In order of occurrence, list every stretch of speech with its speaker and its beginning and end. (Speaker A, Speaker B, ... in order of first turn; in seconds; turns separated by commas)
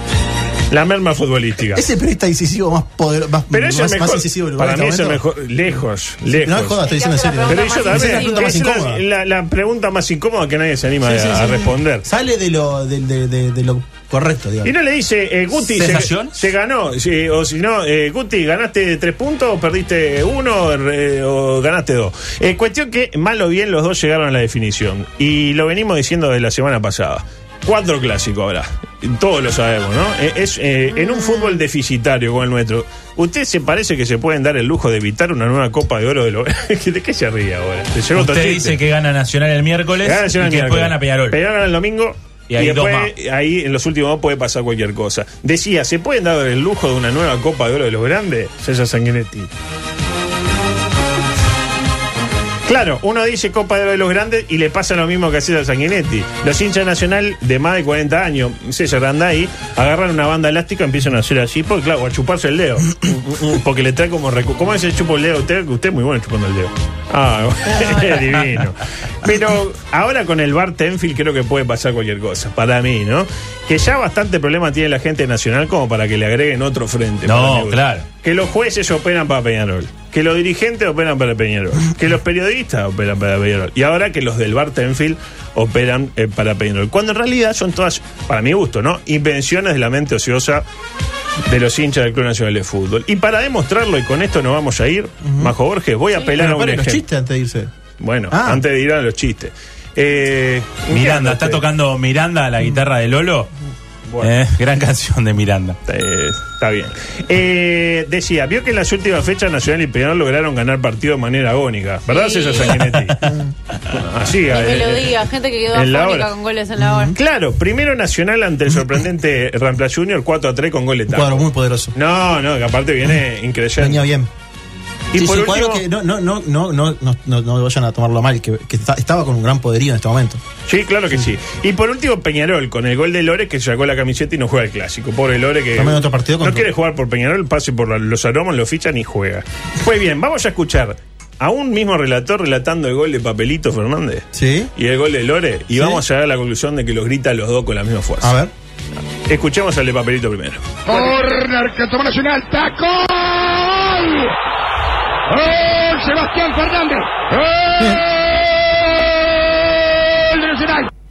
Speaker A: 0.7-1.9, Speaker B: 1.7-5.2, Speaker A: 3.5-6.8, Speaker B: 6.3-9.0, Speaker C: 6.8-8.6, Speaker A: 7.5-12.1, Speaker B: 11.0-14.7, Speaker A: 14.6-38.8, Speaker D: 15.7-16.4, Speaker C: 31.0-31.6, Speaker D: 38.1-41.4, Speaker A: 40.0-49.5, Speaker D: 42.5-43.1, Speaker A: 52.7-90.7, Speaker D: 77.2-78.1, Speaker A: 91.5-97.0, Speaker B: 95.2-95.5, Speaker B: 96.3-97.7, Speaker A: 98.0-101.6, Speaker B: 98.3-98.7, Speaker D: 100.9-103.5, Speaker D: 104.2-105.8, Speaker A: 105.9-113.2, Speaker C: 112.1-112.8, Speaker B: 113.2-113.5, Speaker A: 113.9-115.2, Speaker C: 114.5-117.1, Speaker A: 115.7-116.3, Speaker B: 116.8-117.2, Speaker A: 117.2-124.1, Speaker B: 121.1-121.9, Speaker B: 123.8-124.3, Speaker A: 125.1-125.8, Speaker B: 125.1-130.4, Speaker A: 130.7-148.4, Speaker B: 135.8-136.7, Speaker B: 144.3-144.7, Speaker B: 145.7-146.0, Speaker B: 148.2-148.5, Speaker A: 149.3-151.1, Speaker E: 150.9-154.2, Speaker E: 155.3-158.0, Speaker E: 160.3-160.9